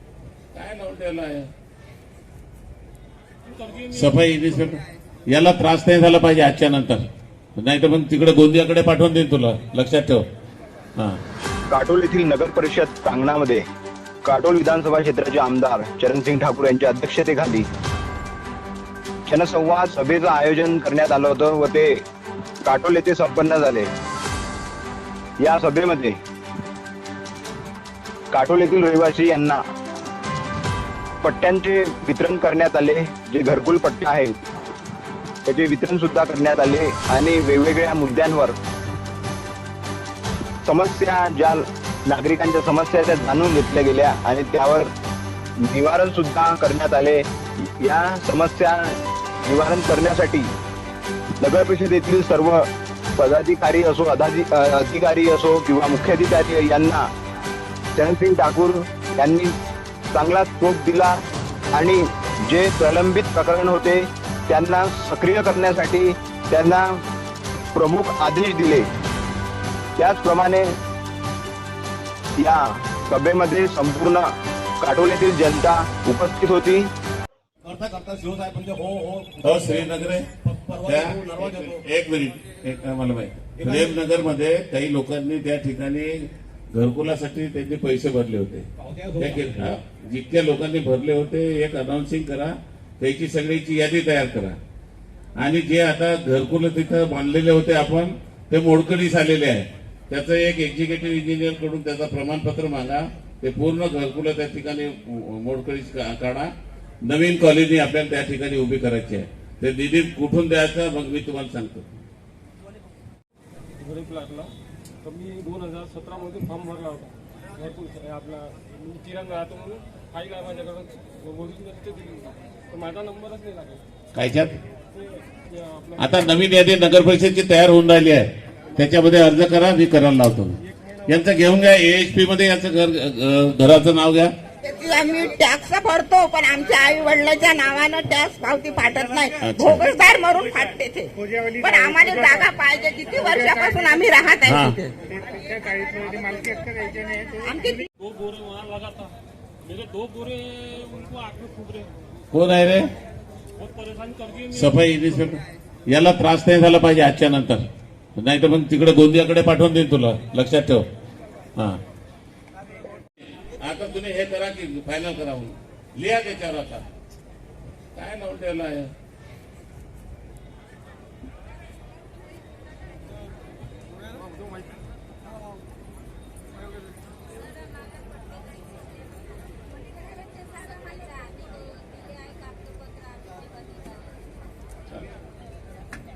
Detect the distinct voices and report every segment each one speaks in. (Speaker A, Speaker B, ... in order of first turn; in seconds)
Speaker A: 0.5-1.5, 3.9-7.0, 7.6-10.2, 79.4-80.3, 80.8-88.7, 89.2-94.6, 95.4-106.5, 107.0-111.8, 124.1-124.6, 126.0-134.3, 139.4-139.9, 144.5-144.8, 152.3-152.9, 154.5-157.6, 158.2-160.8, 163.6-166.8, 167.9-168.9
Speaker B: 3.5-4.1, 113.8-114.5, 115.0-123.8, 124.9-126.2, 148.0-151.9, 153.6-154.7
Speaker C: 11.7-13.6, 14.2-17.7, 19.2-22.0, 22.6-23.9, 25.4-26.2, 28.3-29.6, 31.2-34.4, 35.5-38.5, 40.6-44.9, 45.6-50.5, 51.4-57.1, 58.0-59.5, 60.1-61.2, 61.7-67.0, 67.7-68.9, 70.0-70.7, 72.4-74.3, 74.8-76.9
Speaker D: 77.6-81.8, 83.6-83.9, 88.8-89.7
Speaker E: 134.6-147.9